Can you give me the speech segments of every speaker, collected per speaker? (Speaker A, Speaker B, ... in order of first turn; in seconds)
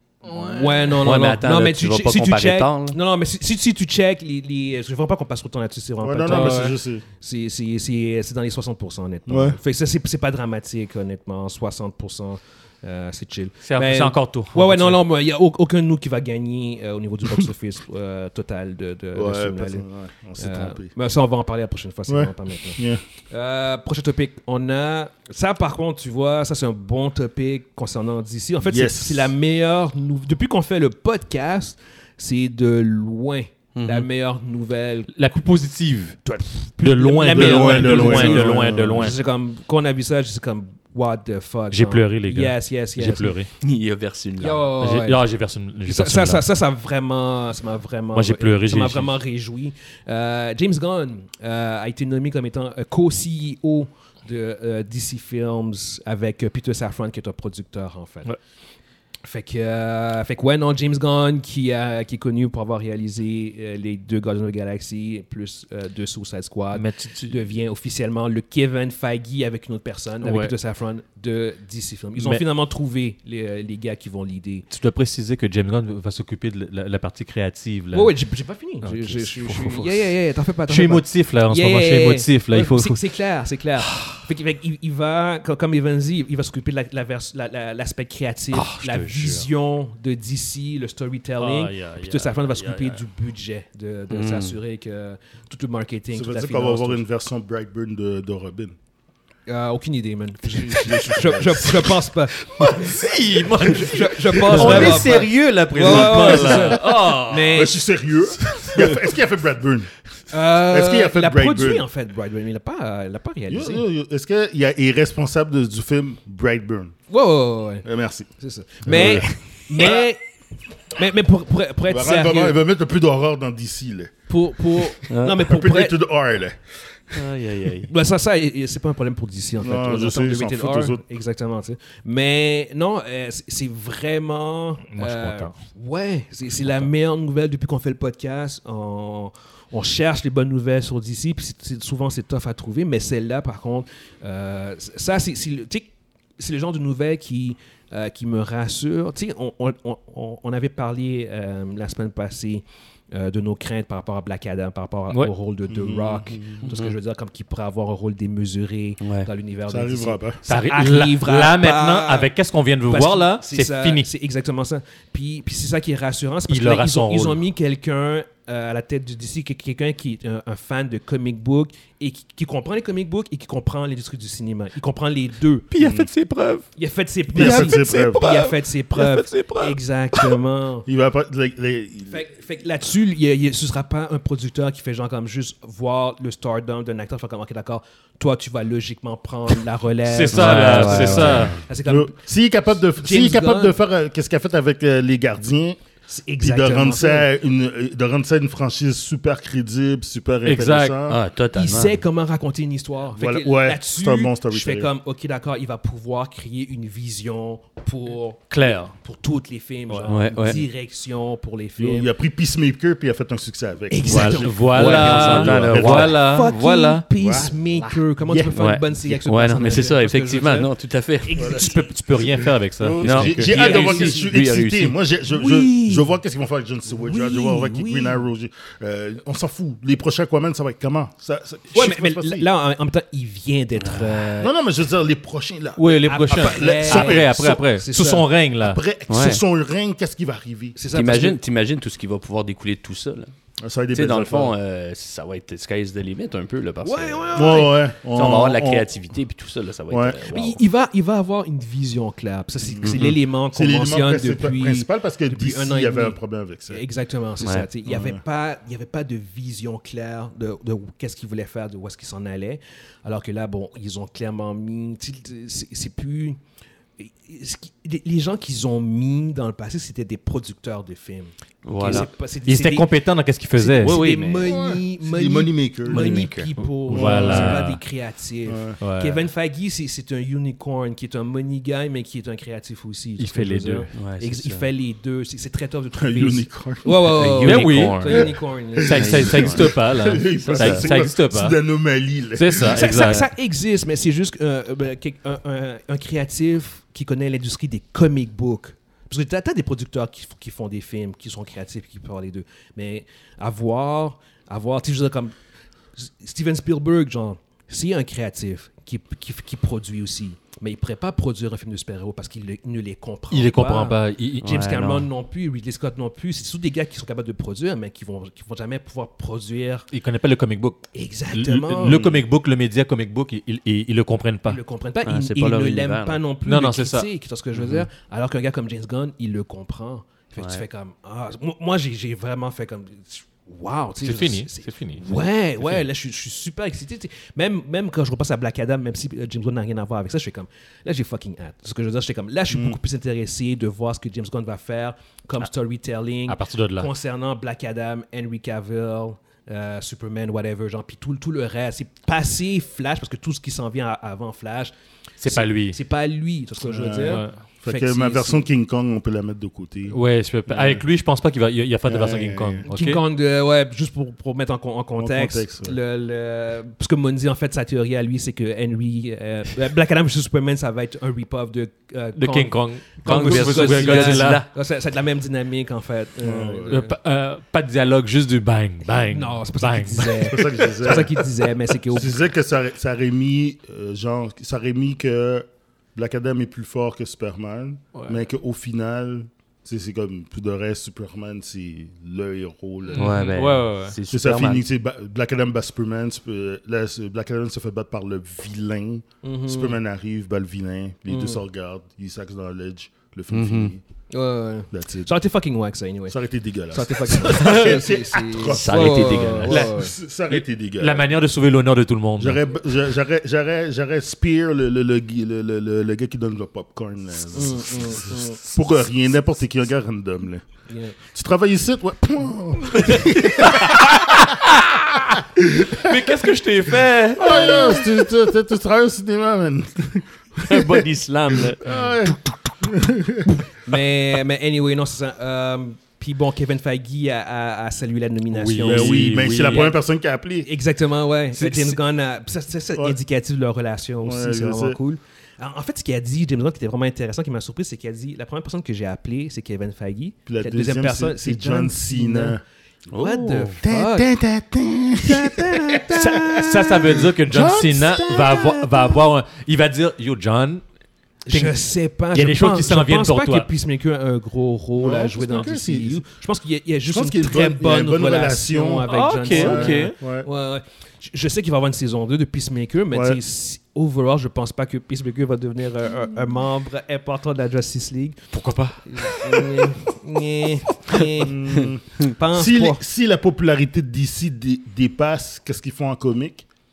Speaker A: 0.3-19.9, 20.4-35.1, 36.2-43.4, 44.4-45.2, 45.9-58.3, 59.2-74.7, 77.9-97.0, 99.5-102.9, 103.5-107.8, 110.3-113.8, 117.1-117.9, 118.4-120.2, 120.9-122.6, 124.3-126.0, 127.9-162.3, 162.9-175.7, 176.8-180.9, 182.1-192.2, 193.0-193.8, 196.1-197.3, 201.5-212.1, 213.9-221.9, 223.3-224.3, 225.3-226.1, 226.9-228.2, 231.7-234.5, 236.0-238.3, 240.8-241.4, 246.8-247.8, 250.3-256.2, 256.7-266.4, 267.0-272.9, 273.6-289.5, 292.6-305.3, 306.0-319.9, 320.9-322.1, 324.5-354.7, 355.2-358.4, 362.7-377.0, 378.9-382.2, 399.2-399.8, 401.1-401.4, 404.1-406.2, 406.7-409.9, 417.3-418.4, 420.7-420.9, 433.6-439.8, 440.4-452.4, 452.9-454.1, 455.0-457.0, 458.0-458.3, 461.3-478.2, 478.9-482.8
Speaker B: 0.5-3.0, 33.8-34.1, 43.6-44.7, 94.1-94.6, 125.1-125.4, 127.1-127.9, 156.7-156.9, 159.0-159.3, 190.3-191.6, 201.1-202.0, 210.1-210.6, 214.2-216.8, 218.6-221.4, 223.0-224.9, 233.8-234.2, 239.1-239.4, 240.9-243.3, 243.9-250.6, 252.8-253.1, 257.4-257.7, 271.6-272.1, 273.8-274.5, 275.9-276.5, 283.9-284.7, 287.0-288.4, 288.9-289.7, 290.4-290.9, 314.5-314.8, 325.1-326.2, 327.6-327.8, 330.4-330.6, 373.1-374.5, 393.0-394.6, 403.3-403.7, 408.4-409.7, 430.5-431.6, 452.9-453.5
Speaker C: 6.0-7.0, 9.3-9.6, 19.1-20.9, 22.1-23.0, 28.6-29.3, 37.3-39.1, 96.1-98.8, 100.7-101.9, 104.3-105.3, 105.8-111.9, 113.5-117.0, 117.8-118.3, 118.8-120.1, 121.9-127.2, 129.6-131.0, 155.7-156.7, 159.7-160.4, 175.8-176.1, 177.3-178.3, 180.9-182.3, 191.8-195.8, 196.4-201.2, 203.1-204.9, 211.8-216.2, 217.2-218.6, 221.4-232.5, 234.4-237.7, 238.6-240.8, 243.6-244.6, 247.3-248.9, 249.9-250.2, 252.7-256.8, 257.9-258.2, 274.4-276.3, 276.9-277.6, 278.5-278.8, 286.0-287.4, 288.1-293.0, 321.9-322.2, 342.5-342.8, 356.6-360.9, 361.9-362.6, 365.0-365.8, 376.2-376.8, 380.3-381.3, 381.9-393.2, 394.1-403.8, 404.7-405.1, 406.1-411.1, 412.2-420.4, 421.0-424.4, 425.1-426.4, 427.1-433.4, 438.6-440.5, 444.0-444.8, 450.3-452.4, 453.6-458.8, 464.8-466.0, 466.9-470.3, 472.9-473.2, 481.2-486.5
Speaker D: 6.3-6.8, 13.6-15.0, 35.1-36.2, 36.8-39.2, 41.7-43.5, 44.8-46.5, 48.1-49.1, 66.7-67.4, 70.2-70.5, 72.2-72.4, 74.7-78.1, 78.8-80.1, 80.7-83.0, 83.9-84.2, 88.5-89.5, 91.4-93.0, 100.9-101.7, 102.4-107.7, 134.9-135.6, 160.5-164.1, 166.5-167.4, 175.7-176.7, 177.3-180.4, 190.1-191.6, 200.4-201.0, 208.5-208.9, 214.1-217.0, 221.4-224.1, 235.8-238.8, 271.9-274.0, 276.9-277.8, 278.8-279.2, 283.2-283.9, 287.4-288.2, 288.8-291.6, 292.4-293.3, 313.3-315.0, 319.9-324.6, 326.4-327.1, 334.0-335.1, 346.3-346.9, 355.2-355.8, 357.0-357.4, 359.9-363.0, 372.2-374.4, 376.7-381.0, 392.9-394.0, 410.3-412.4, 422.9-427.9, 438.3-439.7, 441.4-441.8, 456.0-460.6, 461.3-461.6, 462.1-463.5, 468.9-469.9, 478.3-479.6